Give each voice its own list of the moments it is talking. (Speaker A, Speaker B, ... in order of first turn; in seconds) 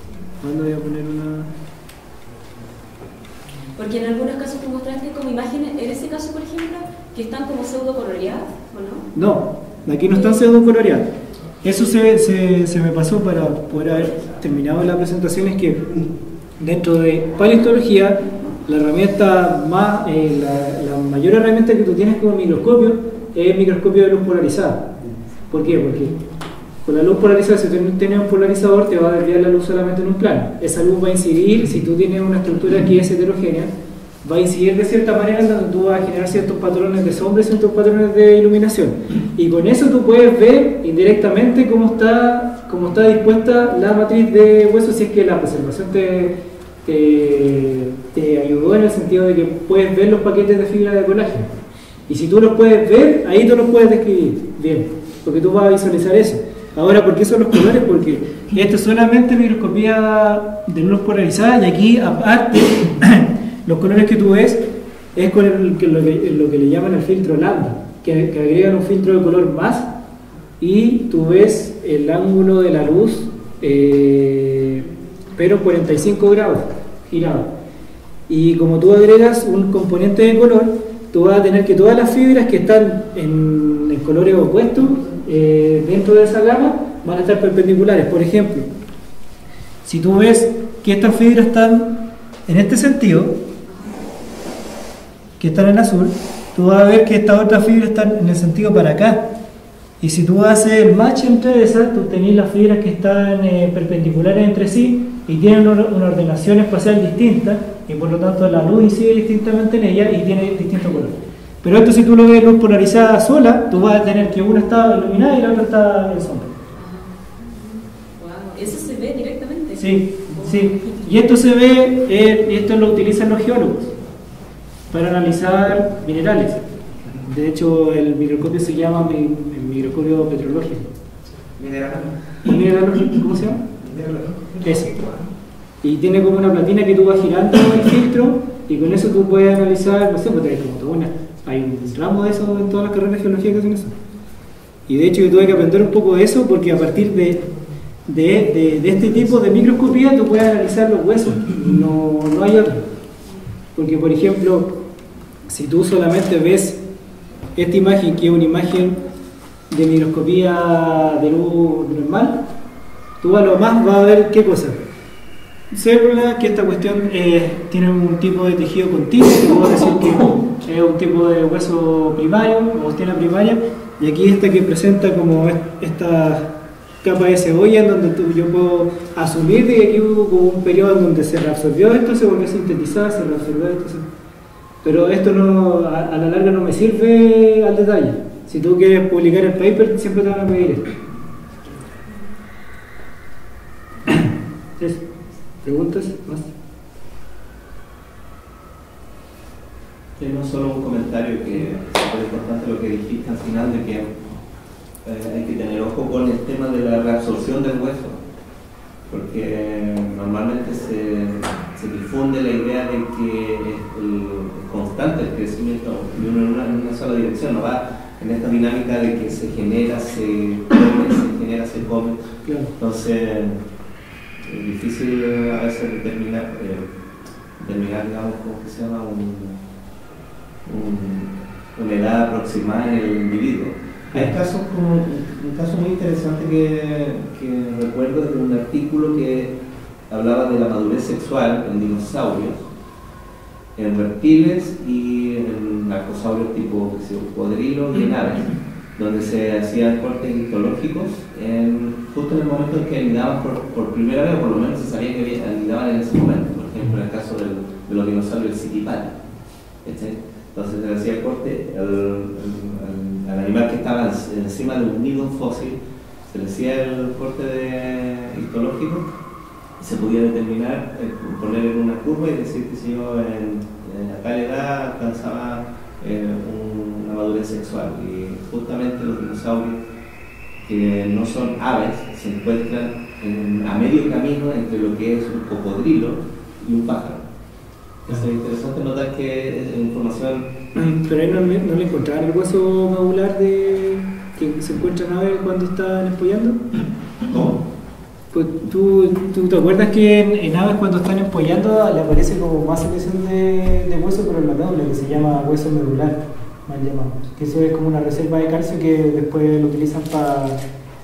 Speaker A: 0.4-1.5, 9.1-11.1, 11.6-15.9, 16.6-24.9, 25.5-26.1, 26.8-33.7, 34.2-51.5, 52.1-64.6, 65.2-69.9, 70.6-74.8, 75.4-77.5, 78.3-88.7, 89.8-92.0, 92.5-93.4, 95.4-99.3, 100.0-116.5, 119.8-123.9, 124.9-126.6, 127.2-130.9, 132.4-133.6, 134.6-134.9, 135.8-143.9, 144.9-147.5, 148.1-152.9, 153.8-154.8, 155.5-156.8, 157.6-159.0, 159.7-162.4, 163.2-164.8, 165.7-184.1, 184.8-190.9, 194.1-195.0, 195.6-196.5, 222.4-222.7, 290.8-296.6, 298.3-310.6
Speaker B: 3.8-9.1, 10.1-10.4, 93.7-94.0, 116.8-121.0
Speaker C: 131.5-132.2, 133.8-135.3, 200.2-204.2, 205.0-208.2, 209.1-222.2, 222.8-223.6, 224.4-226.9, 227.6-229.6, 230.7-239.6, 240.1-242.6, 243.8-259.2, 259.8-265.8, 266.3-269.1, 269.8-279.8, 280.6-287.2, 288.1-290.5, 297.3-297.6